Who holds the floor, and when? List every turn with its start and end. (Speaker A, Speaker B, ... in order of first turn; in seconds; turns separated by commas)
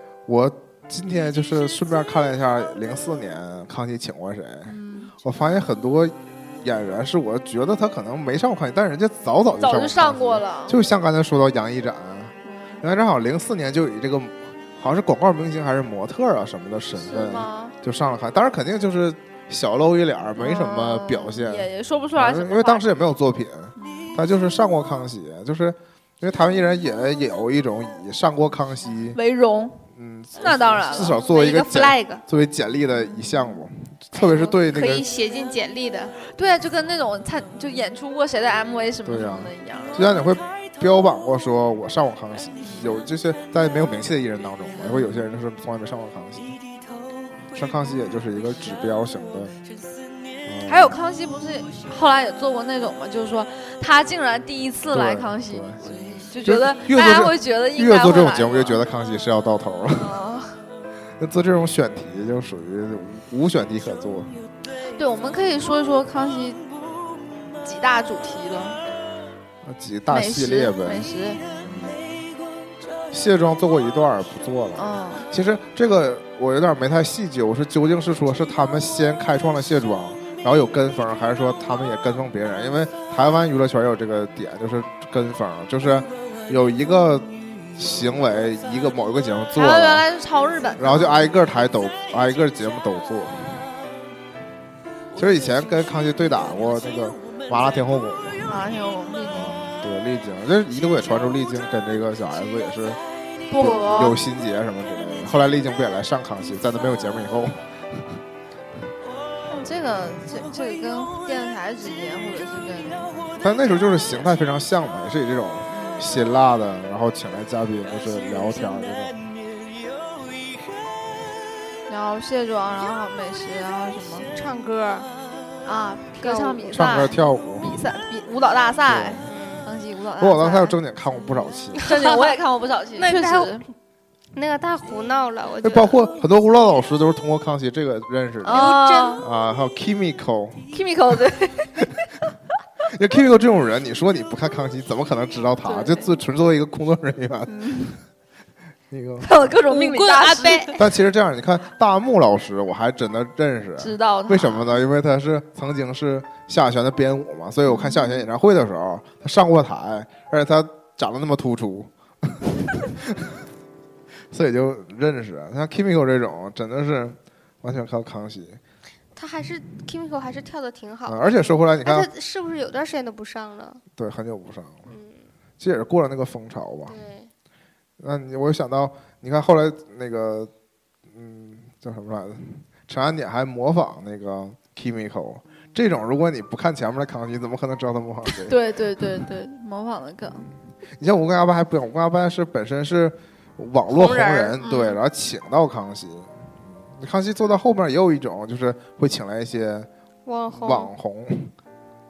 Speaker A: 0.3-29.2, Speaker B: 4.7-5.1, Speaker B: 9.6-10.8, Speaker B: 12.4-12.8, Speaker B: 17.0-17.7, Speaker B: 20.4-22.9, Speaker B: 23.8-24.2, Speaker B: 29.1-29.8, Speaker A: 29.9-35.0, Speaker B: 30.4-31.2, Speaker C: 31.1-32.2, Speaker C: 34.1-36.1, Speaker B: 36.2-40.2, Speaker A: 39.0-46.6, Speaker A: 47.5-49.5, Speaker A: 50.4-51.0, Speaker B: 50.6-58.8, Speaker A: 54.9-60.1, Speaker B: 59.9-60.6, Speaker A: 61.2-64.4, Speaker B: 64.9-66.7, Speaker B: 67.6-68.8, Speaker A: 69.6-72.3, Speaker B: 70.1-71.4, Speaker A: 73.1-90.0, Speaker B: 74.7-75.3, Speaker B: 89.5-91.2, Speaker A: 90.8-93.7, Speaker A: 95.2-98.5, Speaker B: 98.5-99.7, Speaker A: 99.3-103.0, Speaker B: 103.5-104.2, Speaker A: 103.6-108.2, Speaker B: 109.5-113.4, Speaker A: 113.4-119.2, Speaker B: 115.7-116.1, Speaker B: 121.9-124.3, Speaker C: 124.3-125.1, Speaker B: 125.6-130.8, Speaker C: 126.2-126.8, Speaker A: 126.7-127.7, Speaker A: 128.9-129.3, Speaker C: 129.2-129.7, Speaker A: 130.2-131.8, Speaker B: 131.8-133.6, Speaker C: 131.8-132.3, Speaker C: 132.9-133.6, Speaker C: 134.3-135.9, Speaker A: 135.6-140.7, Speaker B: 138.4-139.2, Speaker C: 138.5-139.2, Speaker B: 140.7-141.9, Speaker A: 142.8-147.8, Speaker B: 145.6-146.1, Speaker B: 147.5-148.0, Speaker A: 148.9-149.4, Speaker B: 149.2-150.8, Speaker C: 149.7-150.8, Speaker A: 150.8-163.4, Speaker B: 153.8-154.7, Speaker B: 157.7-158.1, Speaker A: 164.3-168.6, Speaker C: 169.2-171.3, Speaker A: 171.1-172.1, Speaker C: 171.8-173.8, Speaker A: 173.9-174.9, Speaker C: 174.9-175.2, Speaker A: 175.6-176.9, Speaker C: 176.9-177.3, Speaker A: 178.0-180.5, Speaker A: 181.1-188.6, Speaker B: 188.4-190.5, Speaker A: 190.9-199.9, Speaker B: 193.9-195.0, Speaker C: 200.2-200.9, Speaker A: 200.5-201.5